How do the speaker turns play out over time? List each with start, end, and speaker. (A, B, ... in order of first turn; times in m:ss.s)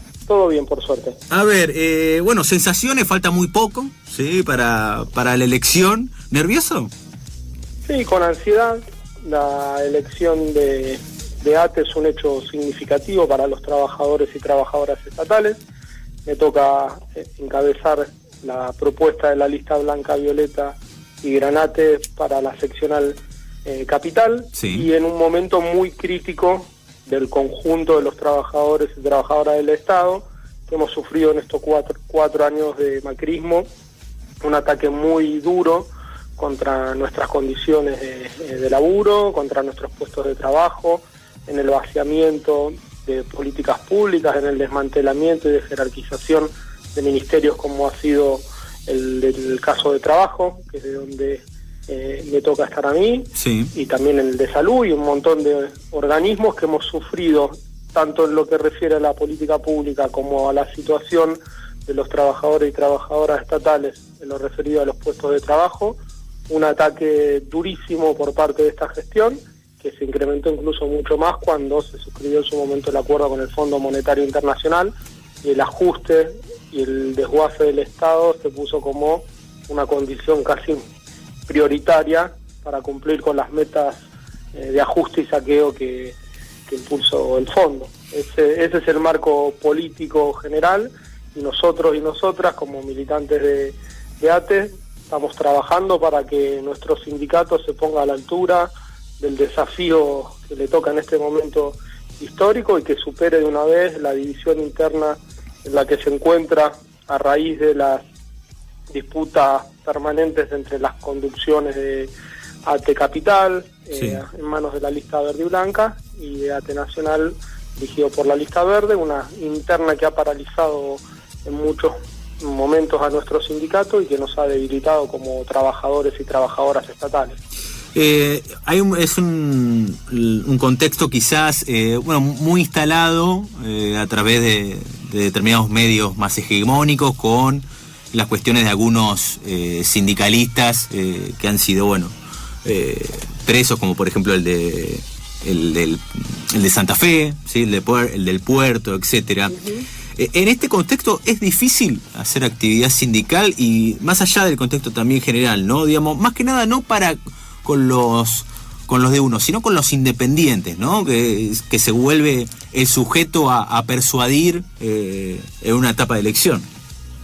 0:00.3-0:01.2 A
0:01.3-0:06.9 B
0:07.8-0:15.6 A
0:16.2-0:33.6 A
0:24.6-0:24.9 B
0:34.4-1:20.8 A
0:53.4-0:53.7 B
1:21.5-1:24.0 A
1:24.5-1:26.2 A
1:26.7-1:48.0 A
1:48.9-1:52.1 A
1:52.6-2:07.4 A
1:54.0-1:54.2 B
2:07.9-2:22.1 B
2:22.6-2:29.6 B
2:29.5-2:29.8 A
2:30.2-2:46.7 B